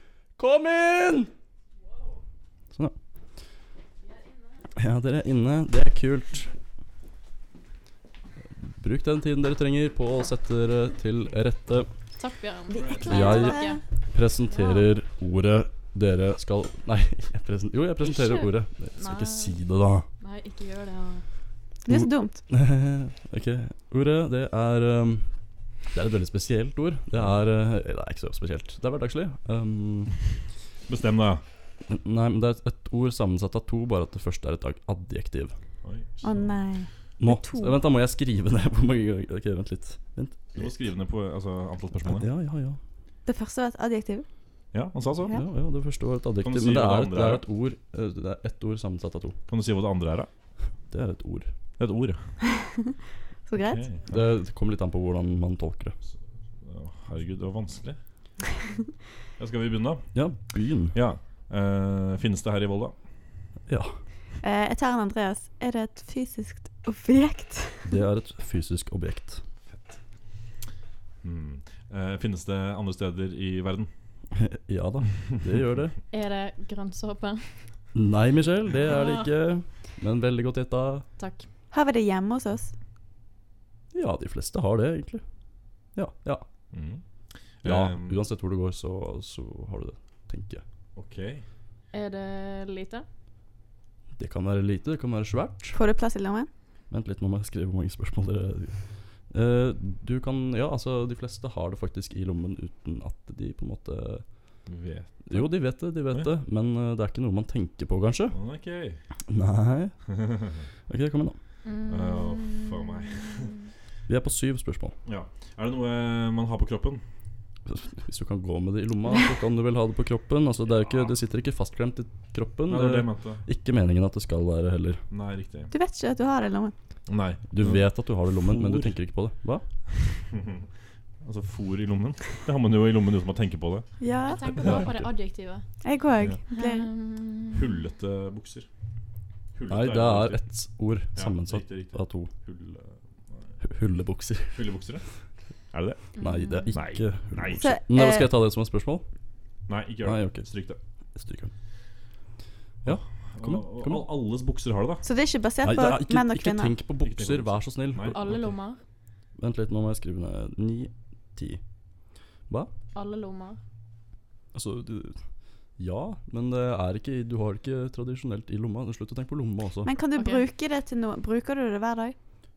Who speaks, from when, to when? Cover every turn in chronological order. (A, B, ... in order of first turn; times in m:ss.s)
0:00.4-0:01.3 A
0:04.8-0:06.6 A
0:08.6-0:11.9 A
0:12.2-0:13.8 B
0:12.7-0:13.8 C
0:13.1-0:13.5 A
0:14.1-0:20.1 A
0:14.5-0:14.9 B
0:18.0-0:19.6 B
0:20.2-0:21.2 B
0:21.9-0:22.4 C
0:21.9-0:25.3 A
0:25.9-0:30.2 A
0:30.9-0:31.4 D
0:31.9-0:35.6 A
0:35.8-0:36.6 D
0:36.2-0:37.8 C
0:37.2-0:40.7 A
0:40.6-0:42.3 D
0:42.1-0:42.8 A
0:43.3-0:44.3 C
0:44.7-0:45.4 D
0:45.3-0:49.4 A
0:46.4-0:47.4 D
0:49.5-0:50.3 D
0:50.9-0:51.5 A
0:51.8-0:52.2 D
0:52.5-0:52.9 C
0:53.5-0:53.9 C
0:53.6-0:54.3 D
0:54.1-0:56.0 A
0:56.6-0:58.0 D
0:59.4-1:00.1 D
1:00.1-1:01.0 A
1:00.9-1:03.0 D
1:03.7-1:04.0 A
1:04.4-1:07.9 C
1:07.8-1:09.4 A
1:11.2-1:13.9 D
1:14.3-1:16.0 A
1:16.1-1:17.7 B
1:17.9-1:21.1 A
1:18.9-1:19.3 B
1:21.2-1:21.5 B
1:21.7-1:22.7 C
1:23.9-1:25.2 A
1:26.0-1:26.4 A
1:26.7-1:27.0 D
1:27.6-1:28.2 D
1:27.6-1:30.6 A
1:31.0-1:31.4 D
1:31.9-1:33.0 B
1:34.2-1:35.8 A
1:35.7-1:36.5 C
1:36.9-1:44.3 A
1:44.7-1:45.5 D
1:45.3-1:48.4 A
1:48.3-1:49.0 D
1:49.3-1:50.0 A
1:50.1-1:50.6 D
1:50.9-1:51.4 A
1:51.6-1:53.6 B
1:51.9-1:53.5 D
1:54.1-1:55.0 A
1:55.1-1:57.0 D
1:57.7-2:05.0 A
2:00.8-2:01.1 D
2:02.7-2:03.4 D
2:05.1-2:05.7 D
2:05.7-2:06.7 C
2:07.1-2:07.9 D
2:07.5-2:09.6 A
2:08.4-2:09.0 D
2:10.1-2:10.7 D
2:11.2-2:13.9 D
2:14.0-2:14.4 C
2:14.2-2:15.6 B
2:14.5-2:15.1 D
2:15.8-2:16.9 C
2:16.5-2:17.8 B
2:17.5-2:18.7 D
2:19.6-2:20.4 D
2:19.7-2:22.3 A
2:21.2-2:23.5 D
2:23.6-2:24.6 A
2:24.5-2:25.0 D
2:25.7-2:26.0 D
2:26.2-2:26.8 B
2:26.2-2:29.0 A
2:26.7-2:27.8 D
2:27.6-2:28.3 C
2:29.7-2:30.8 D
2:30.0-2:30.5 A
2:31.2-2:31.5 A
2:32.8-2:34.1 A
2:32.8-2:35.0 D
2:35.0-2:36.8 C
2:35.6-2:38.4 A
2:37.0-2:38.5 D
2:38.1-2:38.8 B
2:39.4-2:41.6 A
2:42.9-2:43.6 B
2:44.5-2:45.2 A
2:45.8-2:49.9 A
2:49.8-2:52.2 C
2:50.2-2:50.4 B